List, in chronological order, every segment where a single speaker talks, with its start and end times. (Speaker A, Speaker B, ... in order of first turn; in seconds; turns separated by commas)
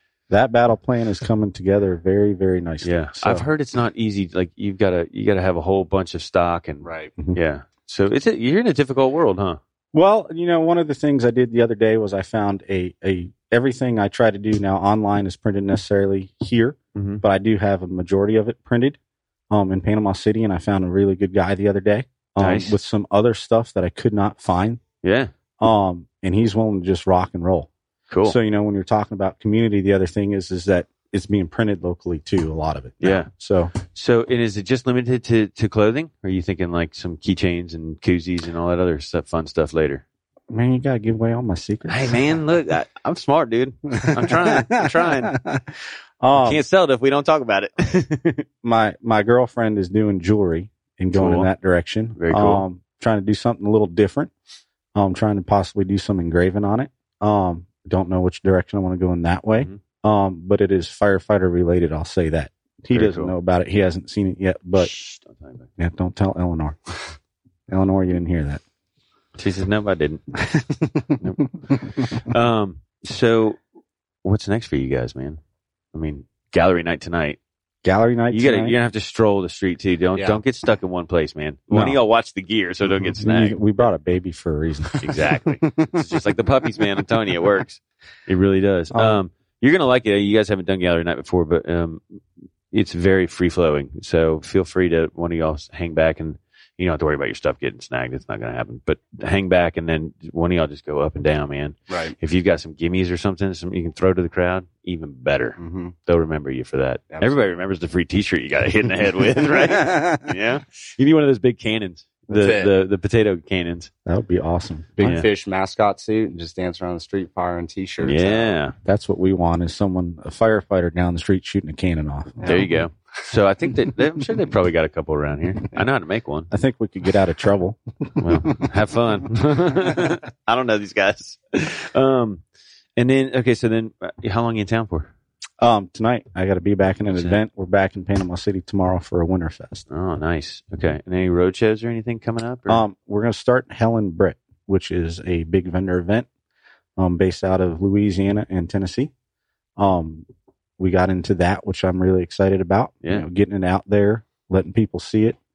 Speaker A: 0.3-3.5, Speaker B: 2.8-9.6, Speaker C: 6.8-7.1, Speaker A: 9.9-19.0, Speaker B: 16.9-17.2, Speaker A: 19.5-24.8, Speaker B: 22.4-22.8, Speaker B: 25.0-25.3, Speaker A: 25.6-27.7, Speaker B: 28.1-28.4, Speaker A: 28.2-33.7, Speaker B: 33.0-40.0, Speaker A: 40.5-42.3, Speaker B: 41.9-45.4, Speaker A: 44.0-45.6, Speaker A: 46.2-46.6, Speaker B: 46.3-48.5, Speaker A: 48.6-54.3, Speaker B: 51.1-51.5, Speaker B: 52.2-52.6, Speaker A: 55.0-64.9, Speaker B: 62.9-63.3, Speaker B: 64.8-65.7, Speaker A: 65.8-66.8, Speaker A: 67.7-68.6, Speaker B: 69.4-70.2, Speaker B: 71.2-73.6, Speaker B: 74.2-75.4, Speaker B: 75.9-77.4, Speaker A: 77.8-78.8, Speaker B: 78.3-83.6, Speaker C: 80.2-80.4, Speaker A: 81.7-82.0, Speaker A: 83.0-85.3, Speaker B: 85.0-113.9, Speaker A: 88.9-89.2, Speaker C: 101.9-102.2, Speaker C: 105.6-105.9, Speaker C: 107.1-107.4, Speaker C: 112.3-112.7, Speaker A: 114.1-115.2, Speaker C: 115.0-118.5, Speaker B: 118.0-118.8, Speaker A: 118.8-122.6, Speaker B: 122.4-126.5, Speaker A: 126.5-128.4, Speaker B: 128.2-132.4, Speaker B: 133.0-135.1, Speaker A: 135.6-139.9, Speaker B: 137.1-137.4, Speaker B: 139.9-142.8, Speaker A: 142.7-146.3, Speaker A: 147.0-149.1, Speaker A: 149.8-150.3, Speaker A: 150.8-155.4